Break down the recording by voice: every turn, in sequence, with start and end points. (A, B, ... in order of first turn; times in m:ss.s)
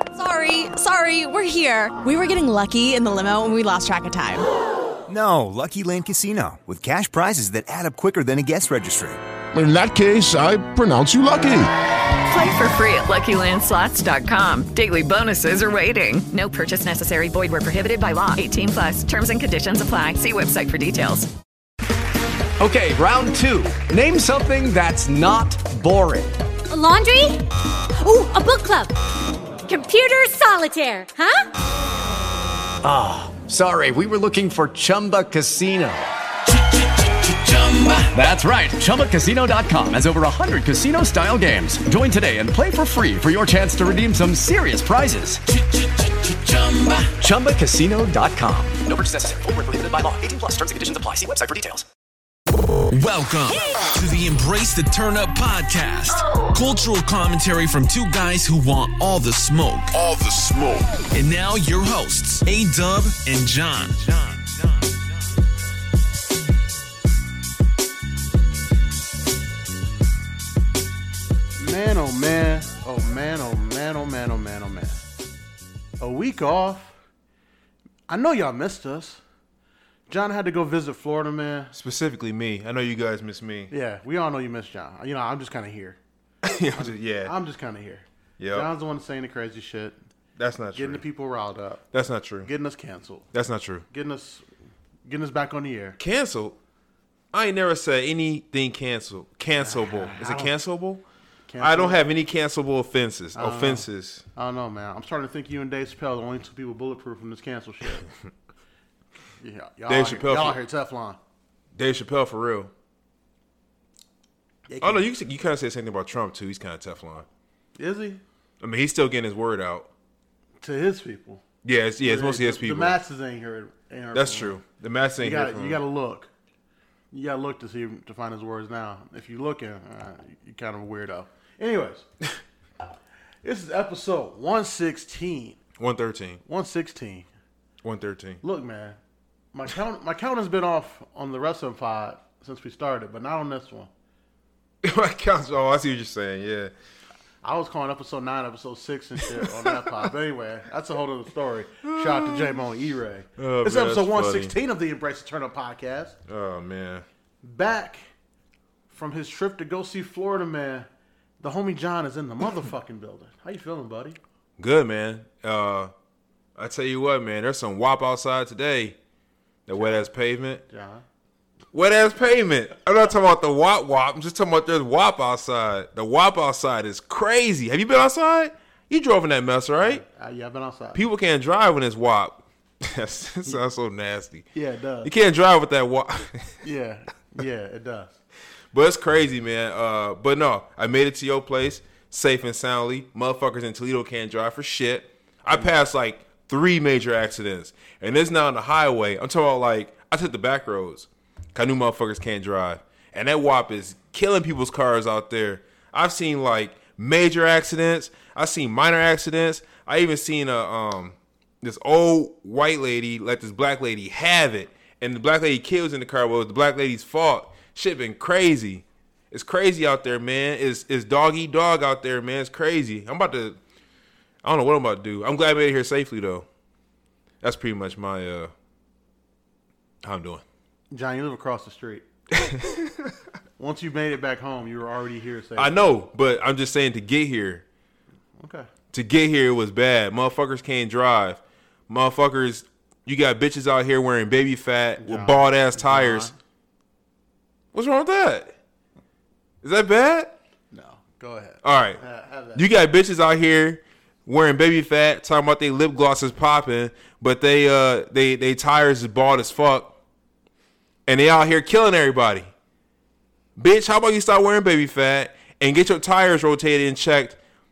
0:00.2-0:04.4 A
0:05.1-0:09.2 B
0:09.5-0:11.7 C
0:12.3-0:21.3 D
0:22.6-0:26.4 E
0:26.7-0:27.4 F
0:28.0-0:28.9 F
0:29.7-0:31.5 F
0:32.8-0:36.1 E
0:36.5-0:38.2 G
0:38.1-0:45.4 E
0:45.6-0:47.2 G
0:47.2-0:51.9 E
0:52.9-1:04.5 G
1:11.6-1:15.0 H
1:16.0-1:17.0 H
1:18.1-1:19.2 H
1:20.1-1:21.7 H
1:21.7-1:23.7 I
1:23.7-1:26.0 H
1:26.4-1:27.3 I
1:26.8-1:30.0 H
1:28.4-1:28.7 I
1:30.4-1:31.0 I
1:30.8-1:31.8 H
1:31.9-1:32.5 I
1:32.4-1:33.3 H
1:33.3-1:33.8 I
1:33.9-1:34.5 H
1:35.1-1:36.0 H
1:36.0-1:36.6 I
1:37.3-1:41.0 I
1:39.6-1:40.5 H
1:41.5-1:42.0 H
1:41.6-1:44.2 I
1:43.4-1:48.1 H
1:49.4-1:51.2 H
1:49.9-1:50.6 I
1:51.8-1:52.7 I
1:54.7-1:55.1 H
1:54.8-1:57.3 I
1:57.8-1:58.2 H
1:58.6-1:59.9 I
2:00.6-2:01.4 H
2:01.6-2:03.0 I
2:02.0-2:04.6 H
2:04.1-2:05.8 I
2:05.2-2:06.3 H
2:07.1-2:12.0 H
2:13.4-2:15.6 H
2:15.8-2:16.4 I
2:16.5-2:17.3 H
2:17.8-2:18.4 I
2:18.4-2:19.0 H
2:19.5-2:23.9 H
2:24.8-2:26.7 I
2:27.4-2:36.2 H
2:29.3-2:29.9 I
2:31.8-2:32.6 I
2:33.4-2:34.5 I
2:36.3-2:37.0 I
2:37.4-2:38.1 H
2:38.9-2:40.9 H
2:41.4-2:44.2 H
2:44.6-2:45.9 I
2:46.6-2:49.0 I
2:49.7-2:50.6 I
2:49.7-2:50.1 H
2:50.7-2:51.0 H
2:51.7-3:00.0 I
2:59.8-3:01.0 H
3:01.0-3:04.5 I
3:04.5-3:05.1 H
3:05.0-3:06.5 I
3:06.6-3:08.2 H
3:08.7-3:43.6 I
3:44.4-3:46.5 I
3:47.4-3:48.5 I
3:50.0-3:50.4 I
3:50.9-3:52.0 H
3:52.3-3:53.1 I
3:53.6-3:55.9 H
3:55.6-3:57.6 I
3:58.4-3:58.7 H
3:58.9-4:06.4 I
4:05.0-4:06.4 H
4:07.7-4:08.5 I
4:09.6-4:10.4 I
4:10.7-4:12.6 H
4:11.6-4:12.0 I
4:12.6-4:20.0 I
4:21.1-4:22.5 I
4:23.6-4:27.4 I